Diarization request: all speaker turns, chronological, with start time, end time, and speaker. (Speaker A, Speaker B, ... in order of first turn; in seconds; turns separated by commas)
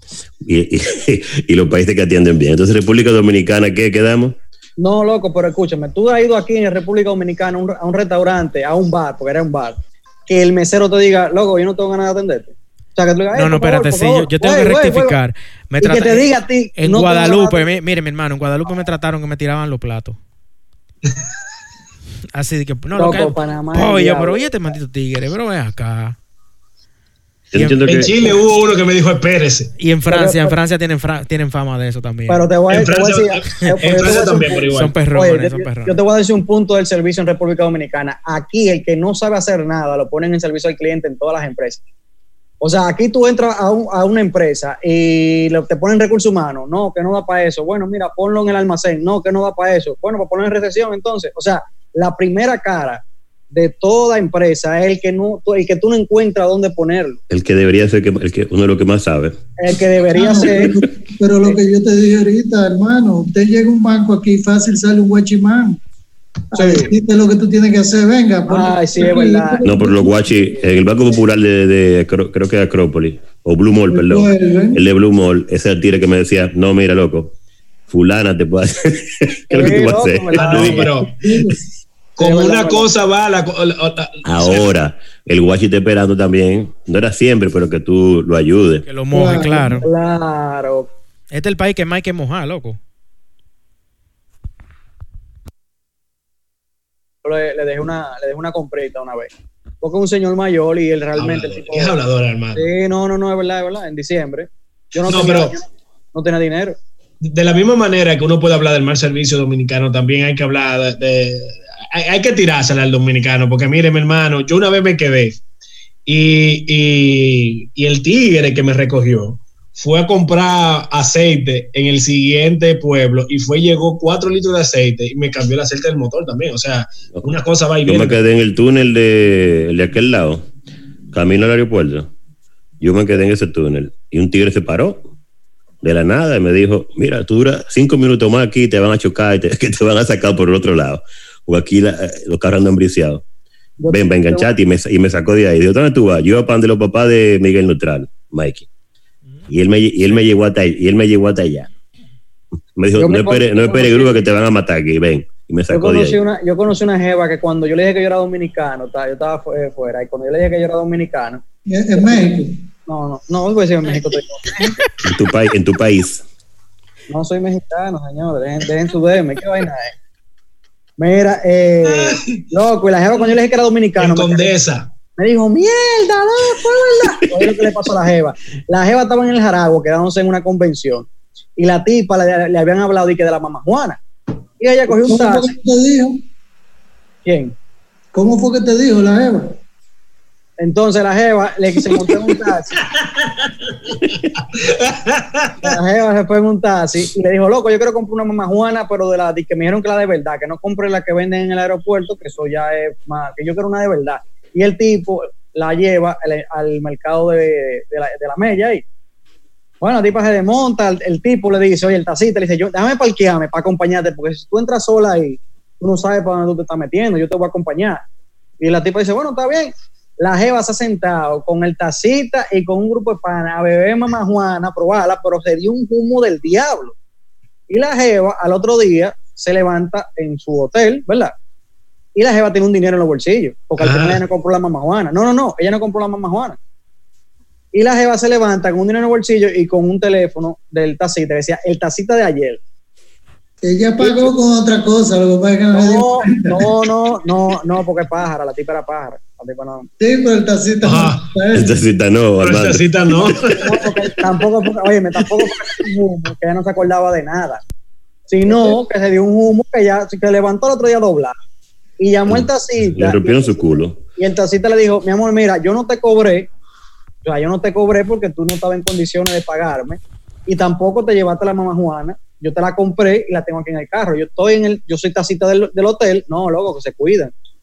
Speaker A: 0.4-4.3, Speaker B: 4.8-15.2, Speaker C: 13.3-20.2, Speaker B: 15.8-17.7, Speaker C: 22.3-26.1, Speaker B: 22.9-24.5, Speaker A: 27.5-28.4, Speaker C: 27.5-28.1, Speaker D: 27.8-29.7, Speaker C: 29.8-32.5, Speaker B: 30.1-30.5, Speaker B: 32.3-41.8, Speaker D: 32.7-34.9, Speaker C: 34.7-35.9, Speaker B: 42.6-57.2, Speaker A: 57.3-59.4, Speaker B: 59.6-60.8, Speaker E: 60.1-65.8, Speaker E: 66.5-70.4, Speaker B: 66.5-66.9, Speaker B: 68.5-69.6, Speaker A: 69.6-77.3, Speaker E: 73.9-74.8, Speaker A: 77.9-80.9, Speaker B: 79.5-80.9, Speaker D: 80.3-81.2, Speaker E: 81.2-81.6, Speaker D: 82.2-84.7, Speaker B: 82.2-82.9, Speaker A: 84.2-88.9, Speaker C: 88.9-89.8, Speaker E: 89.1-89.8, Speaker B: 89.8-90.9, Speaker C: 91.3-92.8, Speaker B: 97.2-99.3, Speaker B: 99.8-102.0, Speaker D: 101.2-102.7, Speaker B: 102.5-106.8, Speaker D: 105.0-105.6, Speaker D: 107.2-115.4, Speaker D: 116.0-128.2, Speaker A: 127.8-130.4, Speaker A: 131.1-132.1, Speaker A: 132.8-135.0, Speaker A: 135.8-143.2, Speaker B: 143.8-144.5, Speaker A: 143.9-148.7, Speaker A: 149.5-151.7, Speaker A: 152.8-156.2, Speaker B: 153.0-154.2, Speaker B: 155.7-161.4, Speaker E: 161.7-162.5, Speaker B: 161.9-162.3, Speaker B: 162.9-164.8, Speaker A: 165.0-166.2, Speaker B: 167.1-169.9, Speaker B: 171.0-174.5, Speaker D: 171.8-172.4, Speaker D: 174.0-174.9, Speaker B: 175.2-184.0, Speaker B: 184.6-185.5, Speaker E: 184.9-186.2, Speaker B: 187.2-187.5, Speaker E: 188.1-189.5, Speaker B: 190.6-192.7, Speaker D: 192.8-195.8, Speaker B: 195.6-208.8, Speaker B: 209.8-218.0, Speaker B: 218.6-226.9, Speaker B: 227.7-231.3, Speaker B: 232.2-236.6, Speaker D: 233.8-234.2, Speaker B: 237.7-242.6, Speaker E: 243.6-246.7, Speaker B: 244.0-244.3, Speaker B: 245.7-249.9, Speaker E: 250.0-251.7, Speaker D: 250.8-251.3, Speaker A: 251.5-253.3, Speaker D: 252.4-254.2, Speaker B: 253.5-257.6, Speaker B: 258.3-261.4, Speaker B: 262.0-266.5, Speaker A: 262.3-264.0, Speaker B: 267.2-277.3